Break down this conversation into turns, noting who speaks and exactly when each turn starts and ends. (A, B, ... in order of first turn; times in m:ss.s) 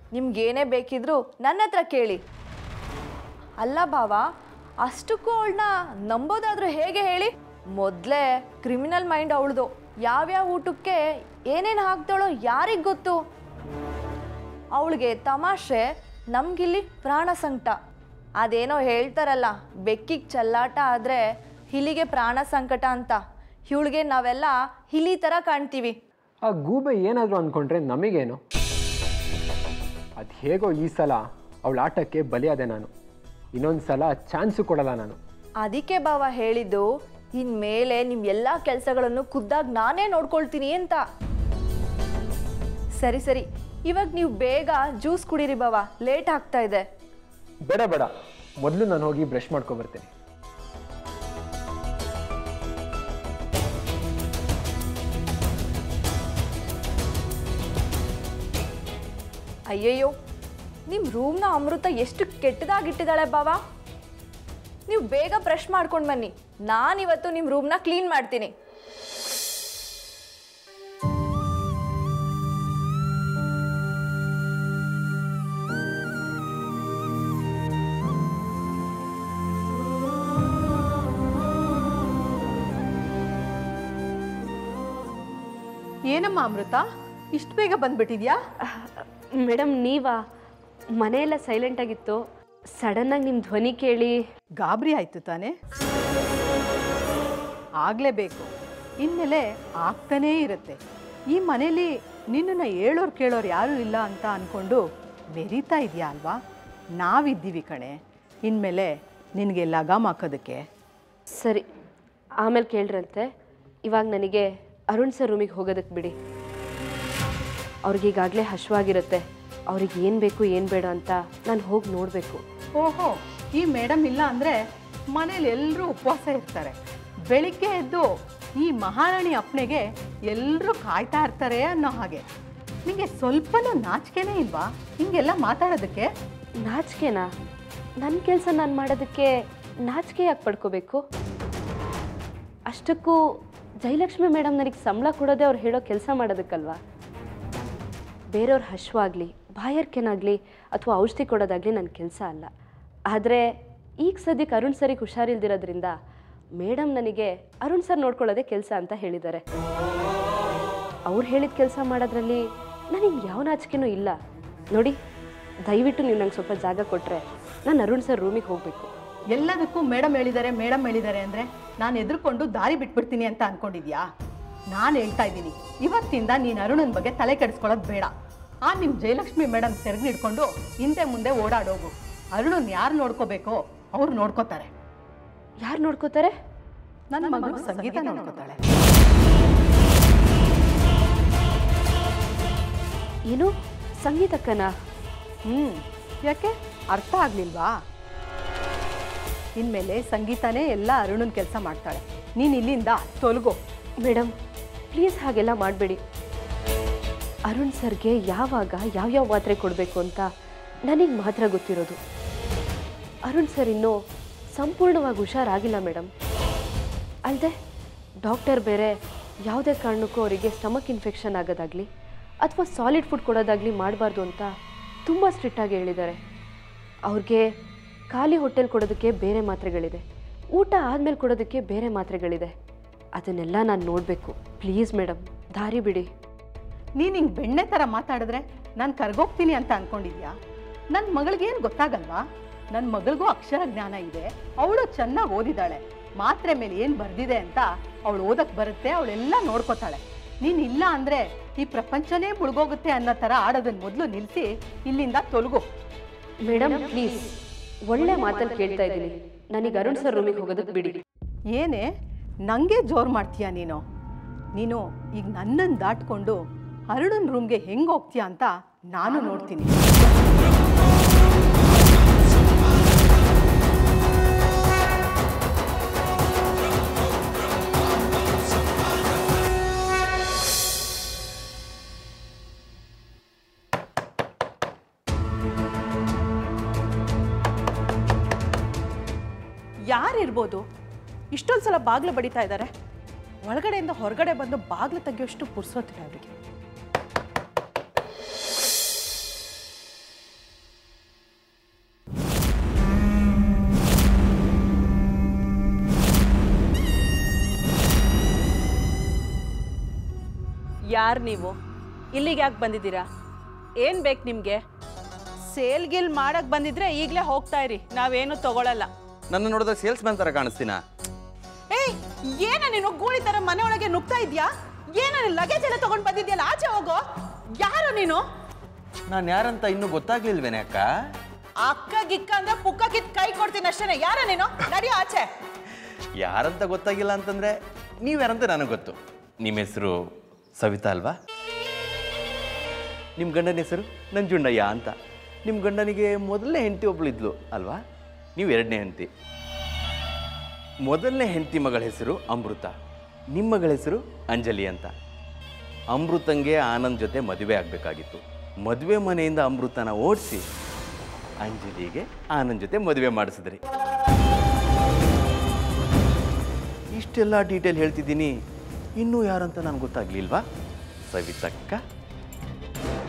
0:00.1-0:02.2 A
0:03.6-0:04.2 A
0:04.8-0:11.0 A
0:11.5-0:13.2 A
0:14.8-0:17.8 A
0:18.4-0:26.0 A
0:26.5-0:28.4 B
0:30.2-0:32.9 B
0:33.5-0:35.2 B
0:35.6-0:41.0 A
0:43.0-0:46.8 A
0:47.7-0:48.1 B
0:48.6-0:50.1 B
0:59.7-1:00.1 A
1:00.9-1:03.6 A
1:04.9-1:08.5 A
1:26.1-1:26.8 C
1:27.4-1:28.4 C
1:28.7-1:30.2 D
1:31.0-1:32.2 D
1:32.8-1:34.2 D
1:34.6-1:35.5 C
1:37.8-1:38.5 C
1:39.0-1:40.8 C
1:41.3-1:44.8 C
1:45.4-1:46.4 C
1:47.0-1:50.6 C
1:51.3-1:51.6 D
1:52.4-1:53.3 D
1:53.8-1:56.2 D
1:57.8-2:02.4 D
2:02.8-2:04.6 C
2:05.1-2:06.7 C
2:07.3-2:08.1 C
2:08.6-2:12.2 C
2:12.8-2:16.1 C
2:16.6-2:17.3 D
2:18.0-2:21.0 D
2:22.7-2:23.2 D
2:23.8-2:26.8 D
2:28.3-2:32.5 D
2:33.1-2:35.9 D
2:36.6-2:39.4 D
2:41.1-2:44.2 D
2:45.7-2:48.9 D
2:49.4-2:54.0 C
2:54.7-2:58.1 C
2:58.6-3:04.7 C
3:05.6-3:06.4 D
3:07.1-3:08.6 C
3:07.4-3:08.1 E
3:13.3-3:14.7 D
3:15.5-3:17.7 C
3:19.6-3:23.6 C
3:24.0-3:24.3 D
3:24.9-3:26.0 D
3:27.5-3:30.3 D
3:30.9-3:32.0 D
3:33.2-3:34.0 D
3:34.5-3:36.1 D
3:37.2-3:37.5 D
3:38.2-3:41.9 D
3:42.4-3:44.5 D
3:45.1-3:46.2 D
3:47.1-3:47.4 D
3:48.1-3:52.5 D
3:53.2-3:56.1 D
3:57.0-4:00.3 C
4:00.9-4:15.7 C
4:16.4-4:17.3 D
4:17.9-4:21.0 D
4:21.5-4:21.9 C
4:22.5-4:23.8 C
4:24.6-4:29.9 C
4:49.9-4:50.6 E
4:51.3-4:52.7 E
4:53.4-4:56.3 E
5:10.9-5:11.6 E
5:12.1-5:13.1 E
5:13.8-5:14.6 E
5:15.5-5:18.9 E
5:19.3-5:20.8 F
5:21.7-5:27.0 E
5:27.6-5:28.2 E
5:29.1-5:30.9 F
5:31.6-5:35.3 E
5:36.2-5:40.0 F
5:40.6-5:41.2 F
5:43.2-5:47.8 F
5:48.4-5:49.1 F
5:50.8-5:52.7 F
5:53.3-5:54.9 F
5:55.9-6:00.4 F
6:01.4-6:03.6 F
6:07.0-6:08.3 F
6:09.0-6:10.4 F
6:11.1-6:11.8 F